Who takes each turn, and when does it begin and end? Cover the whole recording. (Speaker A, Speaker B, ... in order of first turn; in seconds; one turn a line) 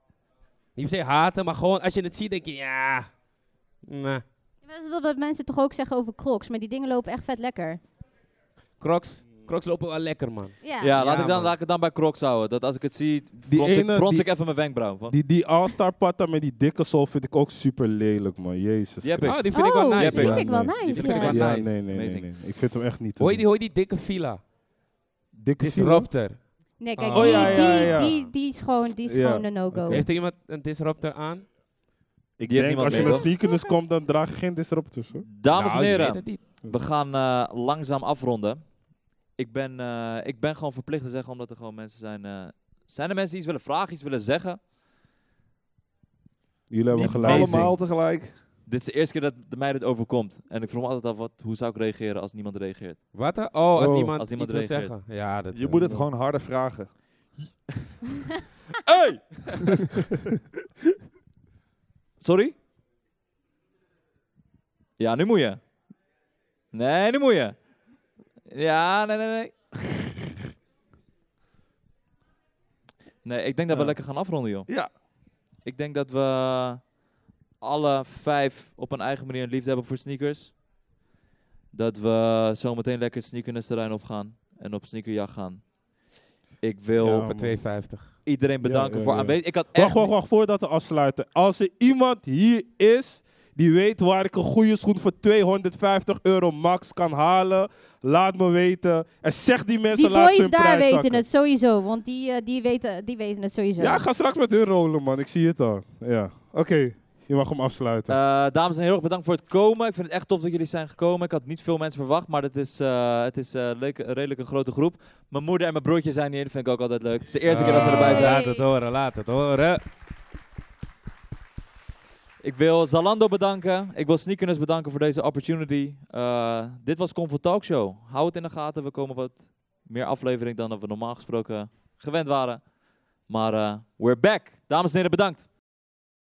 Speaker A: 0.8-3.2
Speaker A: 3.8-4.2
Speaker B: 4.6-7.8
Speaker A: 8.8-11.6
Speaker B: 10.6-10.9
Speaker C: 10.8-15.2
Speaker D: 13.5-19.5
Speaker C: 19.0-22.5
Speaker A: 19.2-21.8
Speaker B: 19.5-21.4
Speaker D: 20.1-23.4
Speaker A: 23.2-24.5
Speaker D: 25.3-26.2
Speaker A: 25.6-28.3
Speaker B: 26.8-30.1
Speaker D: 27.1-28.3
Speaker E: 27.1-27.5
Speaker D: 29.1-30.1
Speaker A: 29.9-31.5
Speaker D: 32.4-35.3
Speaker C: 32.5-33.3
Speaker A: 32.9-33.2
Speaker B: 32.9-33.8
Speaker C: 35.3-44.6
Speaker A: 35.5-36.5
Speaker D: 46.7-47.8
Speaker E: 46.9-48.4
Speaker C: 47.0-47.7
Speaker C: 48.7-53.0
Speaker A: 53.1-55.9
Speaker D: 53.7-54.2
Speaker C: 54.2-55.0
Speaker E: 55.5-57.4
Speaker D: 55.8-56.1
Speaker C: 58.9-59.9
Speaker C: 62.2-62.6
Speaker C: 65.0-65.6
Speaker C: 66.7-67.6
Speaker C: 68.5-69.5
Speaker C: 73.2-75.0
Speaker E: 73.7-74.0
Speaker C: 75.6-77.0
Speaker C: 77.6-80.6
Speaker C: 81.7-85.7
Speaker C: 86.6-90.1
Speaker D: 87.0-87.5
Speaker A: 87.0-88.2
Speaker D: 88.6-101.2
Speaker B: 99.9-104.1
Speaker D: 103.8-108.2
Speaker C: 108.1-118.4
Speaker A: 117.5-119.8
Speaker B: 117.7-118.7
Speaker C: 122.4-132.7
Speaker C: 133.2-135.5